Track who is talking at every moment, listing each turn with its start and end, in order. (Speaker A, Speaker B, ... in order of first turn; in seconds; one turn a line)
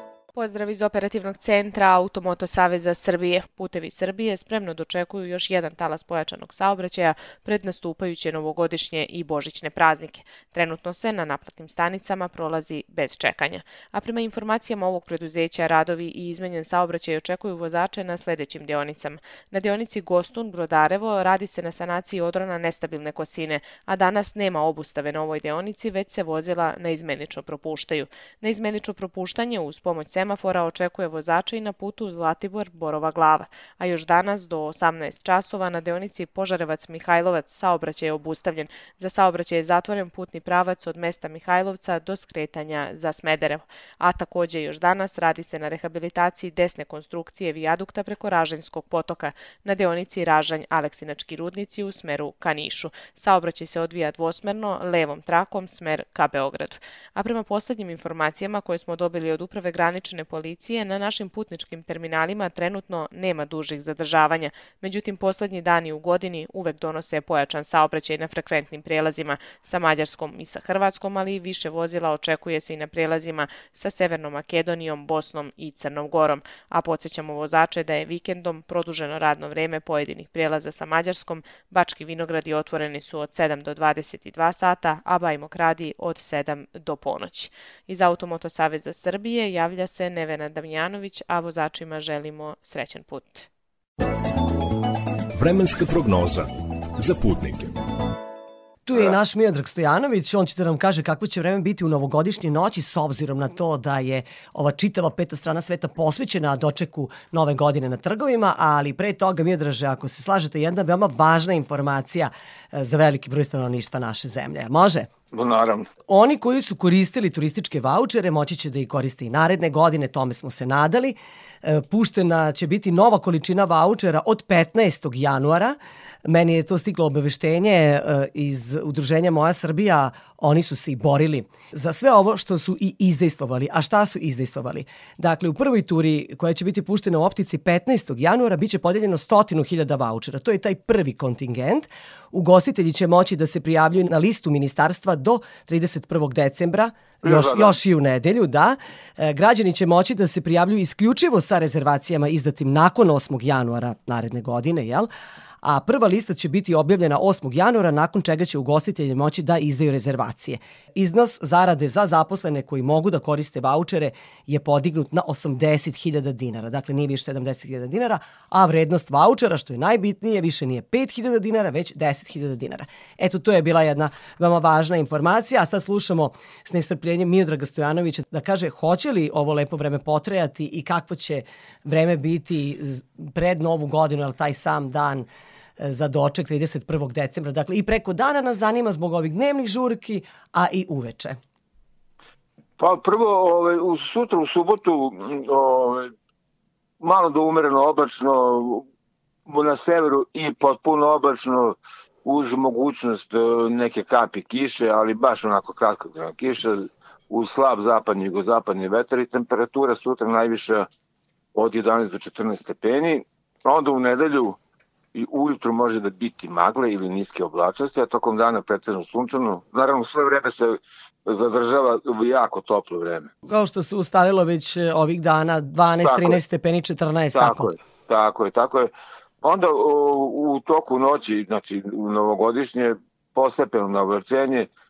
Speaker A: 0.3-93.5
Speaker B: 95.3-97.7
Speaker C: 98.8-115.1
Speaker D: 115.3-115.9
Speaker C: 116.1-155.1
Speaker D: 147.2-147.8
Speaker C: 155.6-185.3
Speaker C: 185.8-191.4
Speaker D: 192.8-196.1
Speaker D: 197.0-198.8
Speaker D: 199.5-210.9
Speaker D: 211.5-214.6
Speaker D: 215.1-223.3
Speaker C: 223.4-227.7
Speaker D: 226.0-226.4
Speaker D: 227.3-234.7